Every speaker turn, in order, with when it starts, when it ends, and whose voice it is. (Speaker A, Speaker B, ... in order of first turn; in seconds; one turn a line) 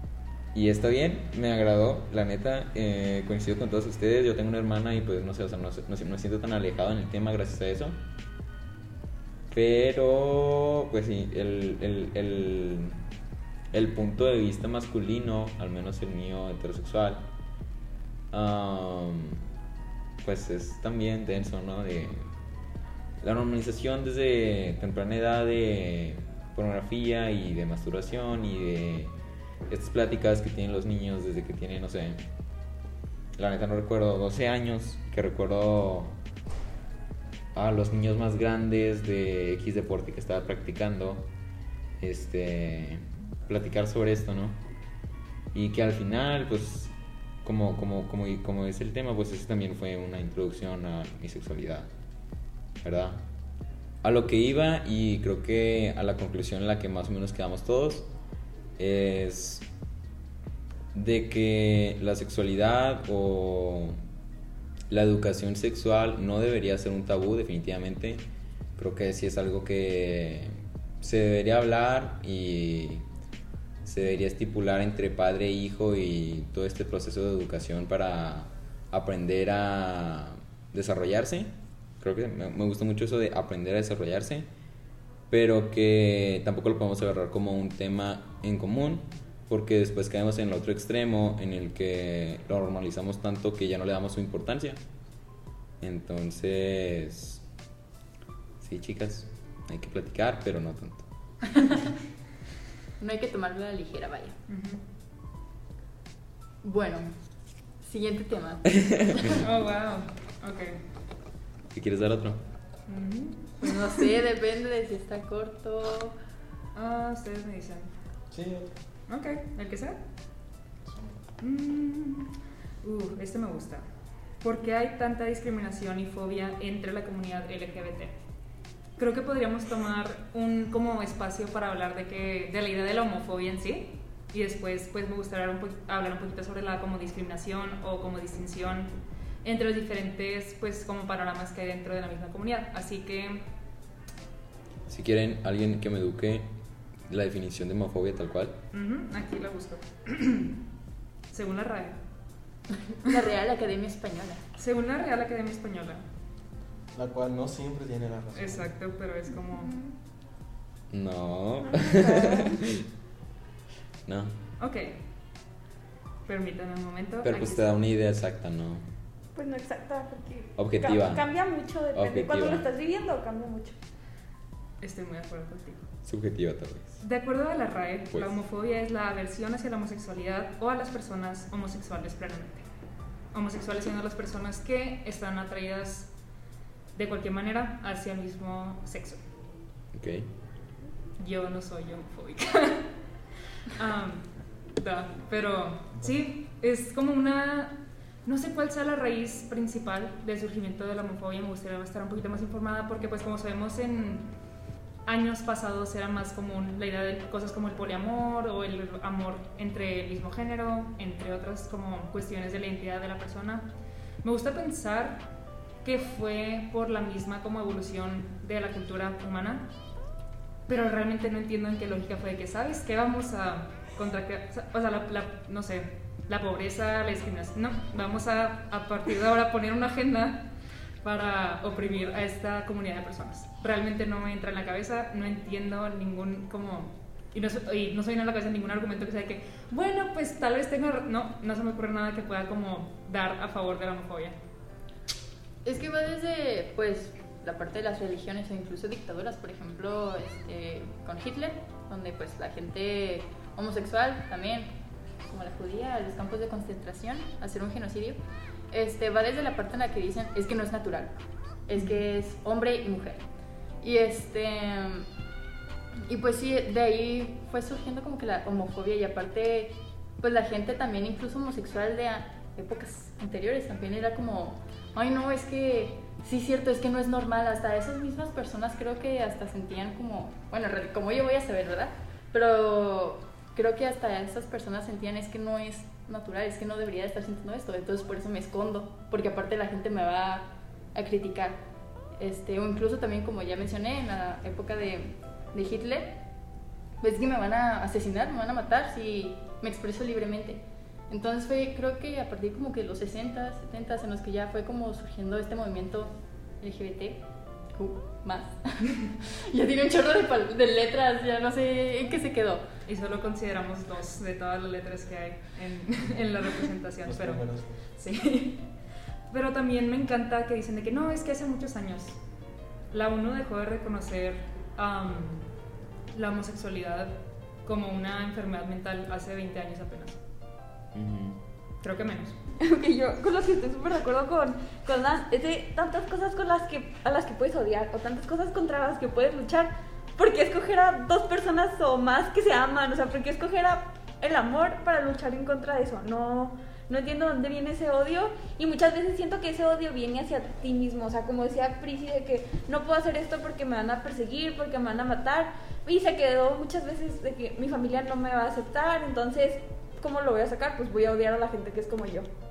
Speaker A: 0.5-8.0
Speaker A: 9.5-13.0
Speaker A: 13.7-17.2
Speaker A: 18.3-19.4
Speaker A: 20.2-22.3
Speaker A: 23.2-29.1
Speaker A: 29.7-32.2
Speaker A: 33.4-36.1
Speaker A: 37.5-41.3
Speaker A: 42.0-44.6
Speaker A: 45.5-51.9
Speaker A: 52.8-53.2
Speaker A: 54.0-58.1
Speaker A: 58.8-59.6
Speaker A: 60.9-64.0
Speaker A: 64.9-68.2
Speaker A: 68.8-73.0
Speaker A: 73.8-84.5
Speaker A: 85.3-94.8
Speaker A: 95.8-97.4
Speaker A: 98.6-101.0
Speaker B: 103.0-104.3
Speaker C: 104.5-104.8
Speaker B: 106.6-107.1
Speaker B: 107.8-108.7
Speaker A: 108.7-109.5
Speaker C: 109.3-110.8
Speaker A: 111.7-112.4
Speaker C: 112.9-114.0
Speaker B: 113.6-116.1
Speaker C: 116.7-117.9
Speaker D: 118.3-118.7
Speaker C: 119.1-120.0
Speaker C: 121.4-123.8
Speaker C: 124.4-128.2
Speaker C: 129.0-143.4
Speaker A: 144.9-146.5
Speaker A: 147.1-148.6
Speaker C: 148.7-150.6
Speaker C: 151.3-152.0
Speaker B: 152.8-154.4
Speaker C: 154.6-156.0
Speaker D: 156.9-158.7
Speaker C: 158.3-159.7
Speaker E: 159.5-159.9
Speaker A: 160.9-162.8
Speaker E: 161.6-162.6
Speaker A: 164.1-164.3
Speaker C: 164.6-165.0
Speaker C: 166.2-167.7
Speaker A: 167.2-168.8
Speaker E: 169.3-173.8
Speaker A: 170.6-171.3
Speaker A: 171.9-172.7
Speaker C: 174.8-175.8
Speaker A: 176.0-177.0
Speaker C: 177.0-182.7
Speaker C: 183.3-186.1
Speaker C: 186.9-189.2
Speaker A: 189.9-190.3
Speaker C: 191.2-192.9
Speaker C: 193.6-204.3
Speaker C: 205.1-213.7
Speaker C: 214.2-215.2
Speaker C: 215.8-219.7
Speaker C: 220.7-230.5
Speaker C: 231.0-244.4
Speaker B: 245.6-254.7
Speaker B: 255.3-258.2
Speaker B: 258.7-263.2
Speaker B: 263.8-265.1
Speaker B: 266.0-291.6
Speaker B: 292.2-296.2
Speaker B: 297.0-307.2
Speaker B: 307.7-312.6
Speaker C: 312.9-317.4
Speaker D: 317.0-317.8
Speaker C: 318.0-318.7
Speaker C: 319.3-322.2
Speaker C: 322.9-325.5
Speaker C: 326.1-330.2
Speaker A: 330.9-331.4
Speaker C: 331.8-332.4
Speaker E: 332.6-362.3